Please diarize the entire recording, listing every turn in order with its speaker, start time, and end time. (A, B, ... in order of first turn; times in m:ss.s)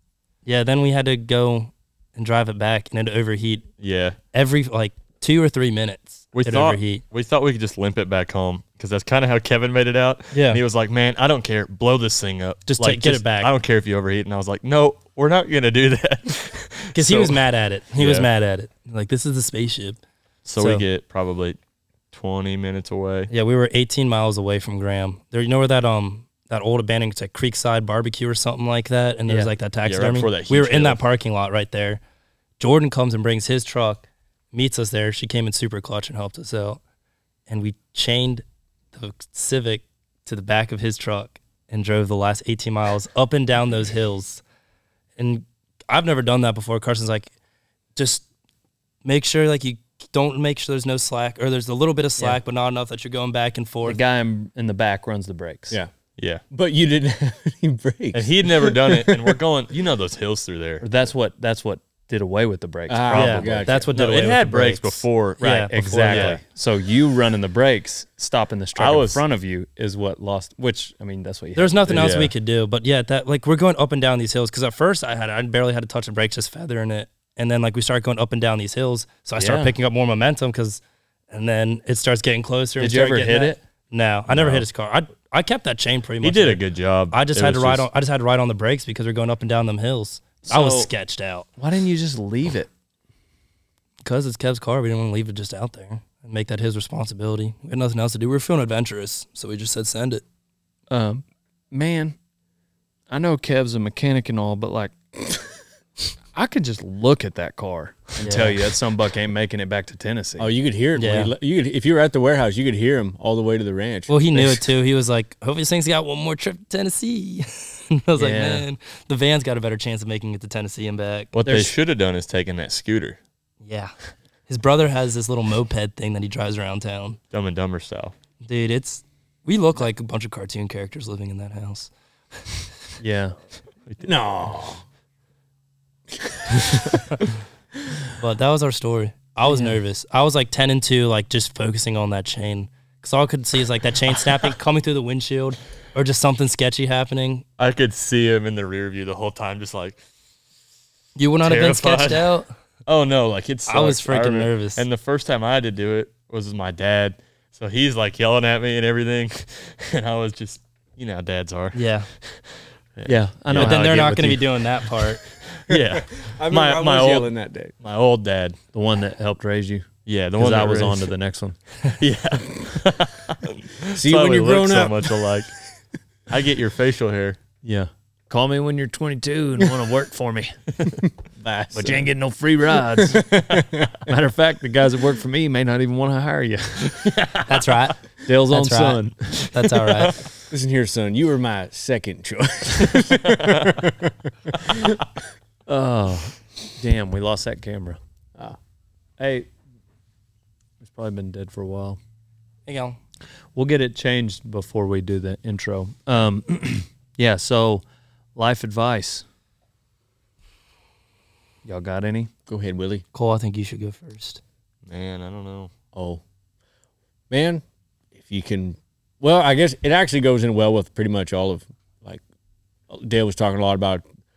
0:00.4-0:03.7 A
0:03.8-0:04.2 B
0:04.3-0:07.0 A
0:06.3-0:17.4 B
0:10.3-0:10.6 A
0:12.7-0:13.5 A
0:16.9-0:20.0 A
0:18.0-0:18.3 B
0:20.4-0:21.6 B
0:20.6-0:20.8 A
0:22.1-0:23.3 B
0:23.3-0:32.0 A
0:29.4-0:31.0 B
0:32.6-0:36.8 A
0:37.5-0:44.4 A
0:45.2-0:47.3 A
0:48.0-0:48.3 A
0:49.0-0:54.0 A
0:53.8-0:55.8 C
0:56.5-0:59.4 D
0:58.1-1:00.9 B
1:00.8-1:03.7 C
1:02.9-1:03.9 D
1:03.1-1:06.4 A
1:03.9-1:06.4 B
1:05.4-1:12.1 C
1:08.8-1:09.2 B
1:11.6-1:31.5 A
1:11.9-1:12.3 B
1:19.4-1:19.7 C
1:22.8-1:23.6 C
1:24.3-1:24.7 B
1:26.2-1:27.9 B
1:30.4-1:30.9 C
1:31.6-1:32.7 C
1:34.0-1:40.2 A
1:40.9-1:42.2 C
1:43.1-1:45.0 C
1:46.3-1:50.5 C
1:48.2-1:48.6 A
1:50.4-1:54.5 D
1:51.0-1:51.3 A
1:54.1-2:01.3 A
1:58.2-1:58.7 C
2:01.3-2:03.2 B
2:01.4-2:01.7 C
2:03.6-2:03.9 A
2:04.5-2:07.2 A
2:07.3-2:08.1 B
2:08.4-2:12.4 A
2:13.0-2:13.4 C
2:14.0-2:14.8 D
2:16.2-2:16.9 D
2:18.2-2:27.4 A
2:27.6-2:30.0 B
2:31.2-2:32.5 A
2:31.4-2:32.4 B
2:32.9-2:48.6 B
2:33.7-2:34.8 A
2:41.7-2:42.1 A
2:43.1-2:44.4 C
2:43.5-2:45.2 A
2:45.7-2:47.7 D
2:48.7-2:51.6 C
2:50.1-2:51.1 B
2:51.8-2:55.5 B
2:53.9-2:55.4 D
2:56.3-2:57.4 B
2:57.6-3:00.6 C
3:01.4-3:02.1 D
3:01.7-3:03.4 C
3:02.9-3:04.0 D
3:04.0-3:07.5 C
3:07.5-3:10.3 A
3:08.2-3:09.6 C
3:10.5-3:15.0 D
3:15.7-3:18.0 C
3:19.2-3:19.5 C
3:20.8-3:22.0 C
3:22.7-3:23.0 A
3:23.6-3:27.8 C
3:28.4-3:29.3 C
3:31.6-3:32.3 C
3:32.5-3:33.0 D
3:33.1-3:34.4 A
3:34.9-3:35.7 B
3:35.9-3:36.2 D
3:37.3-3:37.6 D
3:38.2-3:42.2 D
3:42.9-3:44.0 D